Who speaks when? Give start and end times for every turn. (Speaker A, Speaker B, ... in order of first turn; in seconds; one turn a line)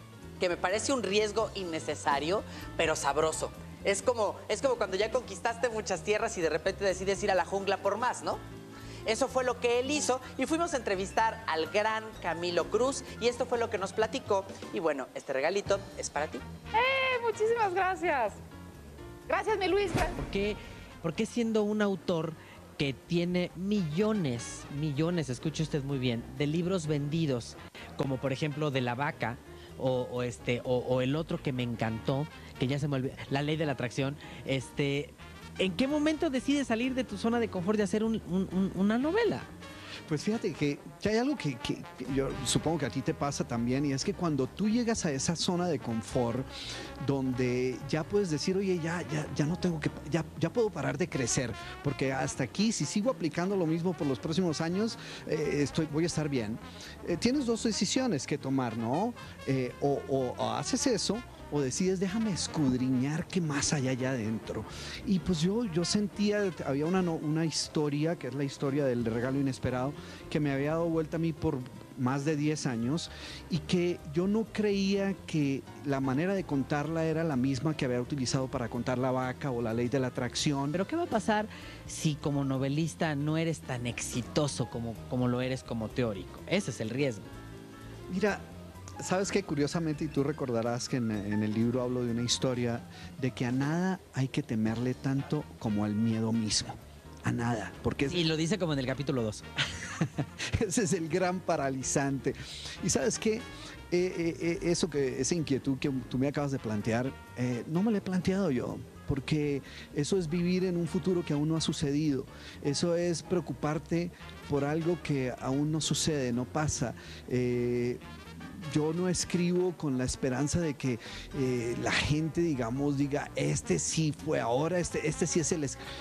Speaker A: 0.4-8.4
Speaker A: 9.1-16.4
Speaker B: 16.7-18.4
Speaker B: 19.3-20.1
Speaker C: 20.2-39.5
Speaker D: 40.1-46.5
Speaker D: 47.0-80.8
Speaker C: 80.7-87.3
Speaker D: 88.1-88.4
Speaker D: 89.0-98.2
Speaker C: 98.1-99.4
Speaker D: 100.5-118.0
Speaker D: 118.6-125.8